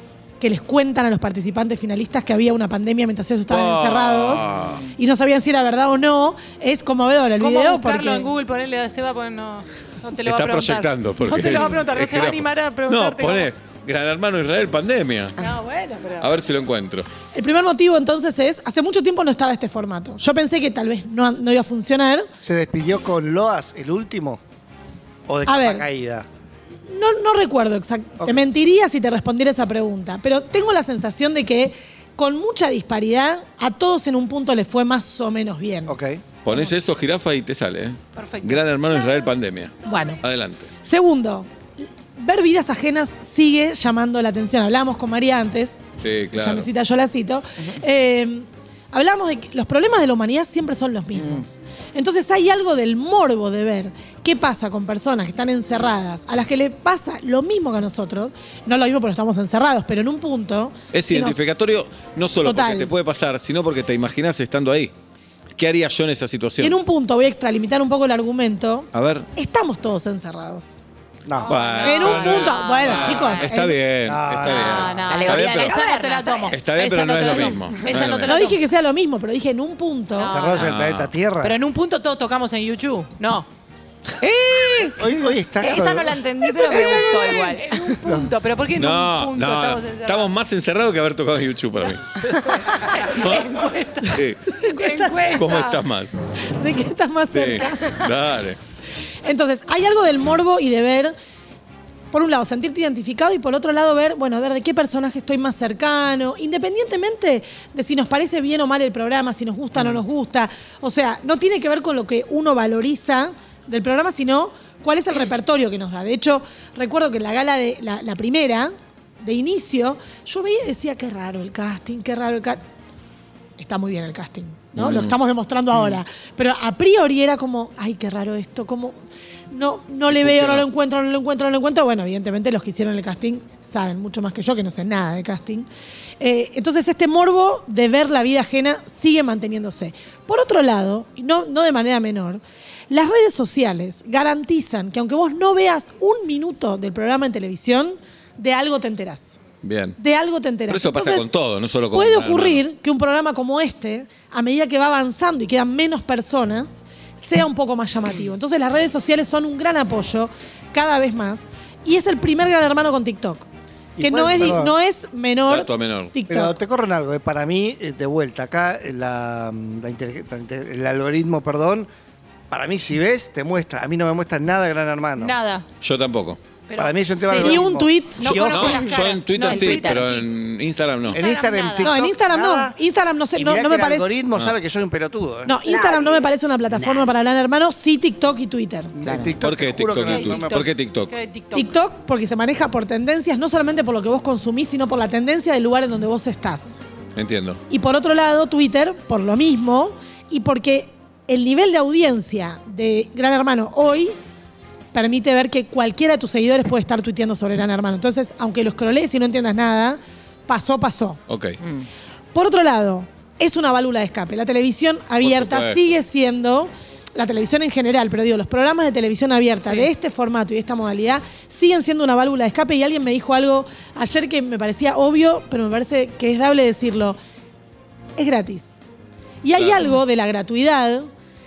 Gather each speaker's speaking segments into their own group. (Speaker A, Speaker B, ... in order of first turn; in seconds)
Speaker A: 0.4-8.3, 17.3-22.3, 25.4-25.9, 26.9-35.9, 39.8-40.2, 40.8-41.5, 42.1-45.8, 46.3-61.4, 62.4-62.9, 66.6-70.8, 71.8-73.8, 78.2-80.3, 94.5-95.8, 96.6-98.0, 99.2-101.1, 102.1-122.6, 123.6-128.9, 129.5-135.7, 136.2-149.4, 150.0-151.3, 151.9-163.5, 164.0-166.6, 177.4-178.4, 181.8-184.1, 185.4-188.9, 191.5-196.8, 197.7-204.1, 204.9-211.2, 212.3-227.2, 228.2-228.8, 229.4-231.1
Speaker B: 3.5-4.9, 10.2-15.4, 16.2-17.1, 36.4-40.7, 46.0-46.7, 60.9-64.9, 65.5-66.8, 68.9-69.3, 71.5-75.8, 76.5-78.5, 80.6-81.1, 88.8-92.2, 93.1-93.5, 94.1-94.4, 95.3-96.1, 97.3-98.6, 124.8-125.1, 125.7-126.0, 130.1-130.7, 149.6-150.0, 150.7-152.6, 165.5-166.1, 175.8-176.4, 178.2-181.2, 189.4-191.1, 197.2-197.6, 211.3-211.6, 215.2-215.8, 229.6-229.9
Speaker C: 7.4-13.5, 15.4-16.3, 38.1-38.6, 71.4-73.5, 74.4-78.6, 80.2-80.7, 81.4-83.5, 84.2-85.3, 86.4-90.3, 94.8-95.6, 175.2-175.7, 176.7-180.3, 181.0-181.9, 190.1-191.7
Speaker D: 22.4-24.4, 25.3-26.2, 35.9-36.2, 71.2-71.6, 74.0-75.1, 80.2-81.6, 85.0-86.2, 88.0-88.3, 164.0-164.7, 166.3-171.9, 172.5-175.3, 176.8-177.9, 181.1-182.8, 183.3-186.1, 188.9-190.7
Speaker E: 51.1-51.4, 74.9-76.6, 77.2-78.0, 85.6-88.2, 92.5-93.0, 178.5-180.0